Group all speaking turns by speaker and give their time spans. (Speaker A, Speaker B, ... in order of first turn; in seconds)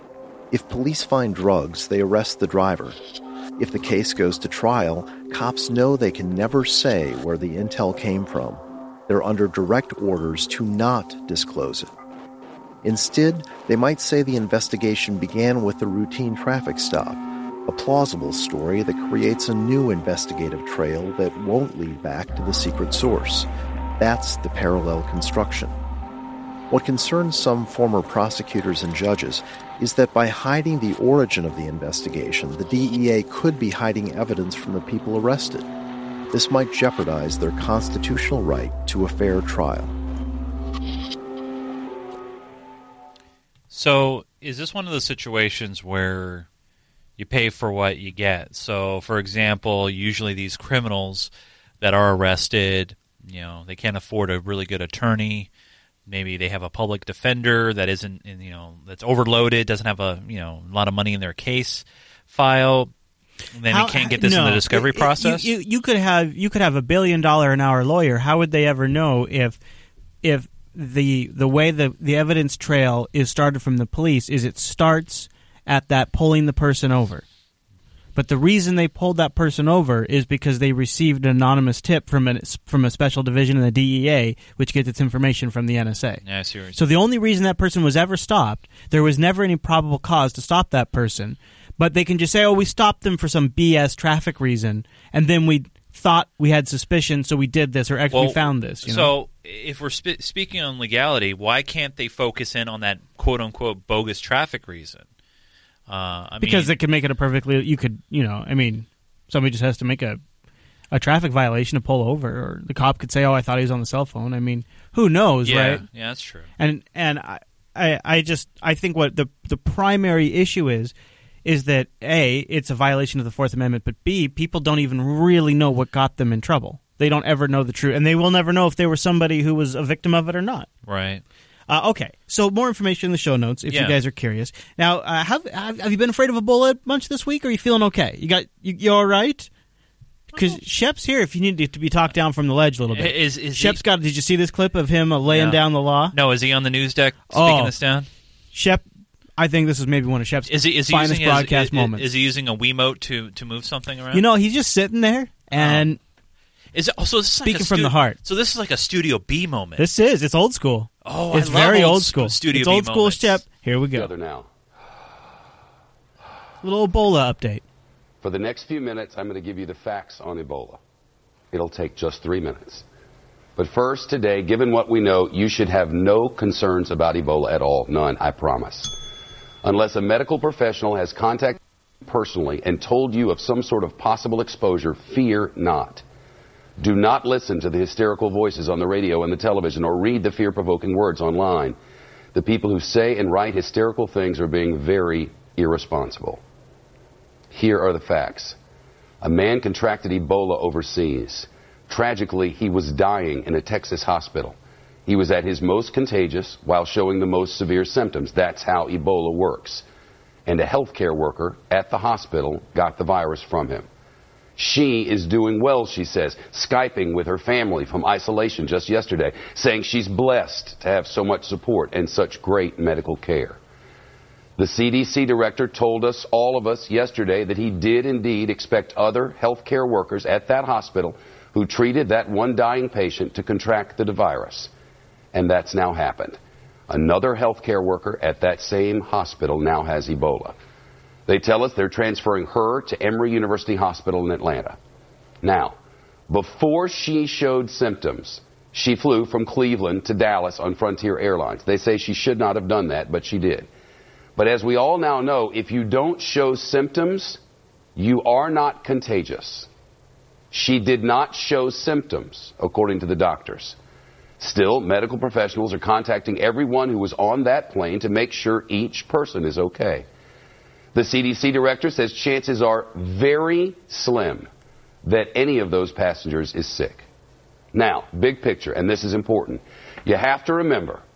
Speaker A: 0.5-3.0, 3.6-11.9, 12.8-23.5, 24.0-25.7, 26.7-35.7, 36.3-39.9
Speaker B: 43.7-46.5, 47.2-55.5, 56.1-62.9, 63.5-65.5, 86.2-86.8, 98.1-105.0, 105.9-106.7, 115.4-116.5, 130.8-131.2, 133.7-134.0, 142.9-143.8, 145.2-148.1, 150.5-154.2, 155.6-155.8, 156.7-159.9, 161.0-163.4
Speaker C: 63.7-69.6, 70.2-77.2, 78.1-86.2, 86.7-99.1, 106.4-110.2, 110.9-115.8, 116.6-120.9, 121.4-130.7, 131.7-139.5, 140.3-146.1, 147.3-147.7, 148.5-148.8, 149.4-152.0, 154.1-156.0, 157.4-158.2, 159.8-164.1, 166.6-167.6
Speaker D: 163.9-164.5, 168.2-170.8, 171.5-172.8, 173.6-178.9, 179.6-186.0, 186.8-191.8, 192.3-196.4, 197.5-198.6, 199.2-209.8, 210.4-213.9, 214.6-223.6, 224.6-234.7, 235.3-240.6, 241.3-244.8, 245.4-245.8, 246.3-253.7, 254.3-257.4, 257.9-259.7, 260.5-263.8, 264.4-270.1, 270.9-274.5, 275.0-277.1, 277.7-281.0